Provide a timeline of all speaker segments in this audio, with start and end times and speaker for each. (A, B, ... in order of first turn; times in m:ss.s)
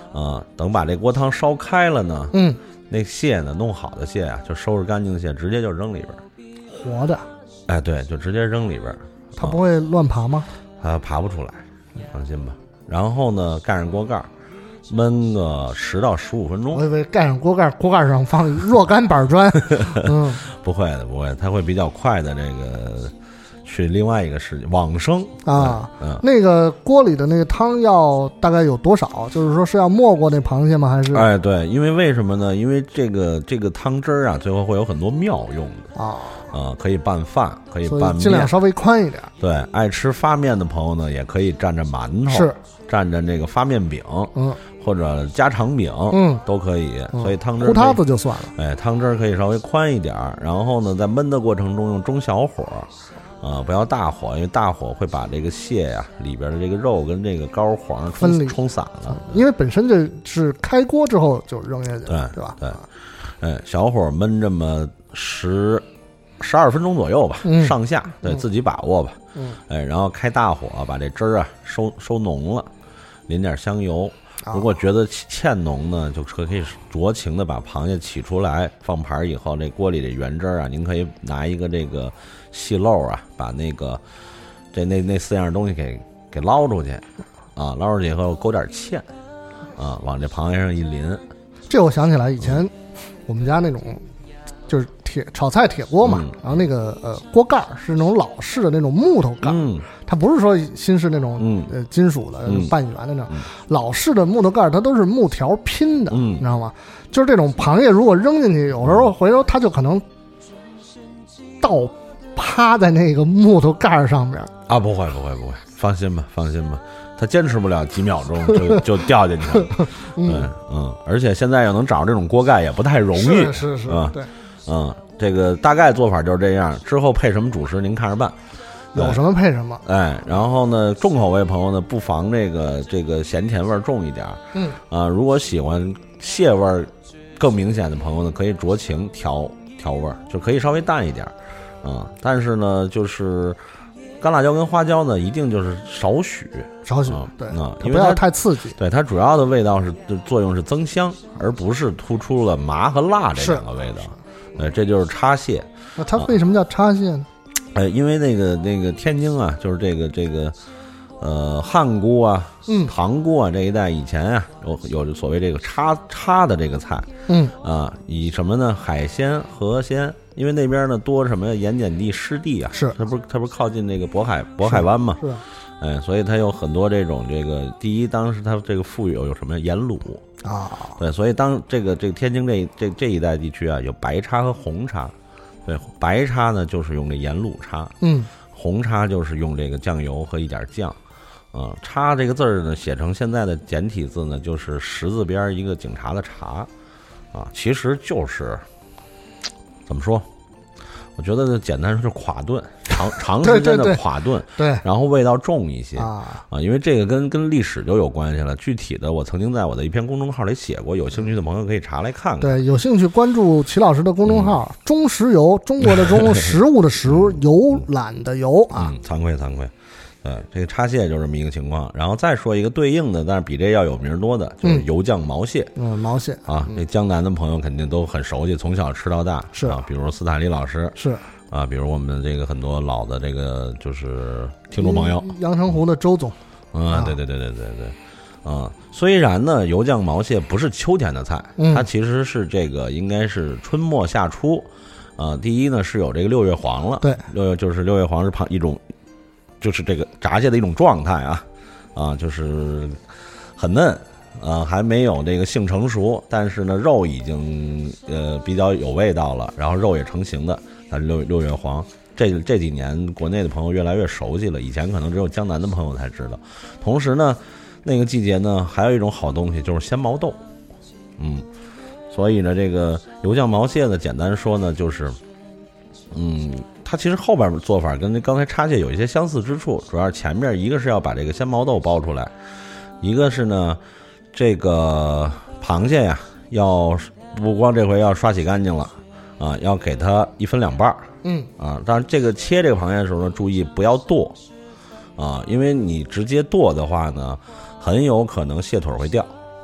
0:00.1-0:02.4 A
0:02.3-0:02.6 B
0:02.9-0:06.2 A
0:06.7-0:07.3 B
0:07.7-0:09.6 A
0:09.4-0:10.5 B
0:10.8-0:14.3 A
0:14.9-0:16.8 A
0:16.7-0:20.4 B
0:19.9-0:23.1 A
0:23.6-0:26.2 A
0:25.4-0:31.3 B
0:31.1-0:35.9 A
0:35.9-0:36.5 B
0:36.5-0:38.5 A
0:37.8-0:39.3 B
0:39.4-0:48.0 A
0:42.3-0:42.6 B
0:44.3-0:44.6 B
0:46.1-0:46.4 B
0:47.1-0:48.5 B
0:48.5-0:52.9 A
0:53.4-0:59.4 A
0:58.2-1:02.8 B
1:02.1-1:02.8 A
1:03.4-1:05.8 A
1:06.4-1:09.2 A
1:07.4-1:08.4 B
1:09.7-1:12.7 A
1:13.3-1:24.0 A
1:24.7-1:27.0 A
1:27.6-1:29.0 A
1:29.8-1:31.2 A
1:31.7-1:32.7 B
1:33.2-1:34.0 B
1:34.7-1:50.0 B
1:36.0-1:36.6 A
1:39.4-1:39.9 A
1:41.4-1:41.7 A
1:42.4-1:42.7 A
1:46.1-1:46.4 A
1:48.8-1:49.1 A
1:51.6-1:54.5 B
1:54.7-2:08.4 A
1:58.5-1:58.8 B
1:59.6-2:00.5 B
2:03.2-2:04.3 B
2:08.9-2:09.2 A
2:08.9-2:09.8 B
2:09.8-2:23.6 A
2:14.5-2:14.8 B
2:24.2-2:36.3 A
2:26.8-2:28.8 B
2:33.3-2:33.7 B
2:36.0-2:37.3 B
2:37.7-2:40.6 A
2:41.2-2:47.1 A
2:42.7-2:42.9 B
2:47.3-2:47.5 B
2:47.6-2:55.3 A
2:54.7-2:55.4 B
2:55.8-3:00.2 A
3:00.4-3:01.0 B
3:01.0-3:05.1 A
3:05.6-3:07.9 A
3:08.0-3:08.3 B
3:08.5-3:11.0 A
3:11.5-3:16.7 A
3:17.3-3:18.6 A
3:19.9-3:20.2 A
3:21.2-3:32.6 A
3:23.4-3:24.0 B
3:24.6-3:24.8 B
3:26.0-3:26.4 B
3:32.4-3:38.9 B
3:34.2-3:34.6 A
3:38.7-3:39.7 A
3:40.2-3:45.7 A
3:45.8-3:46.7 B
3:46.5-3:51.0 A
3:49.5-3:49.8 B
3:51.0-3:51.2 B
3:51.5-3:55.3 A
3:54.8-3:56.4 B
3:56.7-4:08.8 A
3:56.9-3:57.2 B
4:01.6-4:01.8 B
4:07.0-4:07.3 B
4:09.6-4:13.0 A
4:13.6-4:30.4 A
4:31.2-4:31.4 A
4:32.1-4:35.2 A
4:36.1-4:42.3 A
4:43.0-4:43.8 A
4:44.3-4:54.4 A
4:51.2-4:51.5 B
4:55.2-4:59.3 A